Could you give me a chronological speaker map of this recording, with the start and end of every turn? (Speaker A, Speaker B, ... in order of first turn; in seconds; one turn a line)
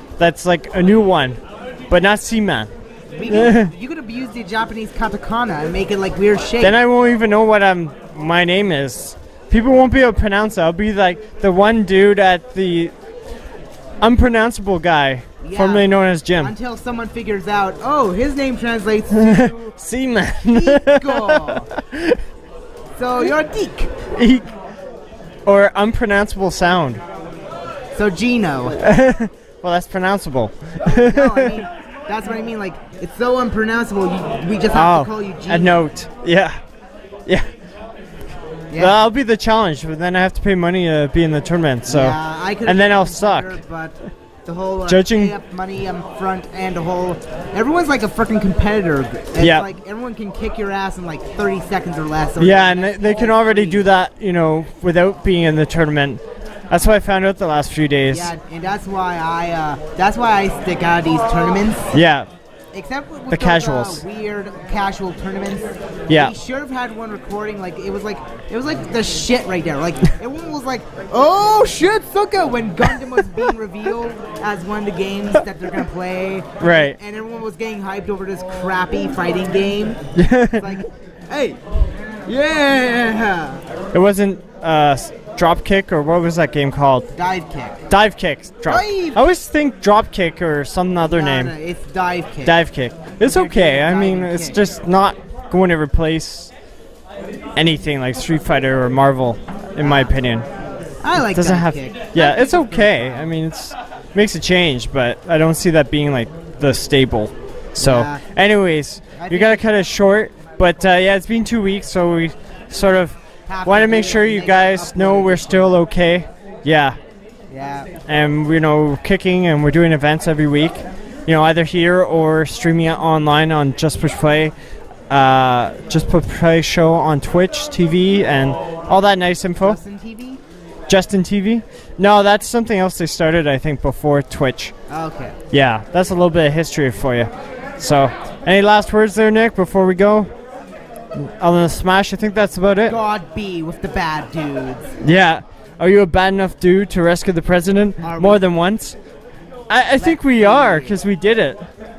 Speaker A: 0.2-2.7
Speaker B: 3.1-6.8
Speaker A: 3.3-3.7
Speaker A: 6.6-12.9
Speaker A: 14.0-16.5
Speaker B: 15.4-15.9
Speaker B: 16.4-19.6
Speaker A: 19.1-22.2
Speaker B: 20.5-21.7
Speaker B: 23.0-24.0
Speaker A: 24.1-24.5
Speaker A: 25.5-27.0
Speaker B: 27.9-28.8
Speaker A: 28.8-31.6
Speaker B: 30.8-35.8
Speaker A: 34.7-36.5
Speaker A: 38.8-43.6
Speaker B: 41.9-53.9
Speaker A: 44.9-45.4
Speaker A: 49.4-49.7
Speaker A: 52.4-58.3
Speaker B: 58.1-61.9
Speaker A: 61.9-62.3
Speaker B: 62.7-80.0
Speaker A: 63.3-64.0
Speaker A: 66.1-66.3
Speaker A: 76.6-77.0
Speaker A: 80.2-80.7
Speaker B: 80.5-81.6
Speaker B: 82.2-83.6
Speaker A: 83.9-87.1
Speaker B: 87.2-87.9
Speaker A: 87.9-91.5
Speaker B: 88.7-89.3
Speaker B: 91.0-92.6
Speaker A: 92.5-96.5
Speaker B: 93.2-94.6
Speaker A: 97.6-100.5
Speaker B: 99.8-100.1
Speaker B: 101.0-103.3
Speaker A: 101.2-117.0
Speaker B: 107.8-108.2
Speaker B: 109.2-109.6
Speaker B: 113.5-115.7
Speaker B: 117.5-117.9
Speaker A: 118.1-124.5
Speaker A: 125.1-129.8
Speaker B: 129.6-130.4
Speaker A: 130.9-134.7
Speaker B: 134.9-135.4
Speaker A: 135.5-140.3
Speaker A: 141.2-143.0
Speaker B: 142.8-145.0
Speaker A: 145.0-149.0
Speaker B: 148.0-148.4
Speaker A: 149.7-151.6
Speaker B: 150.0-151.0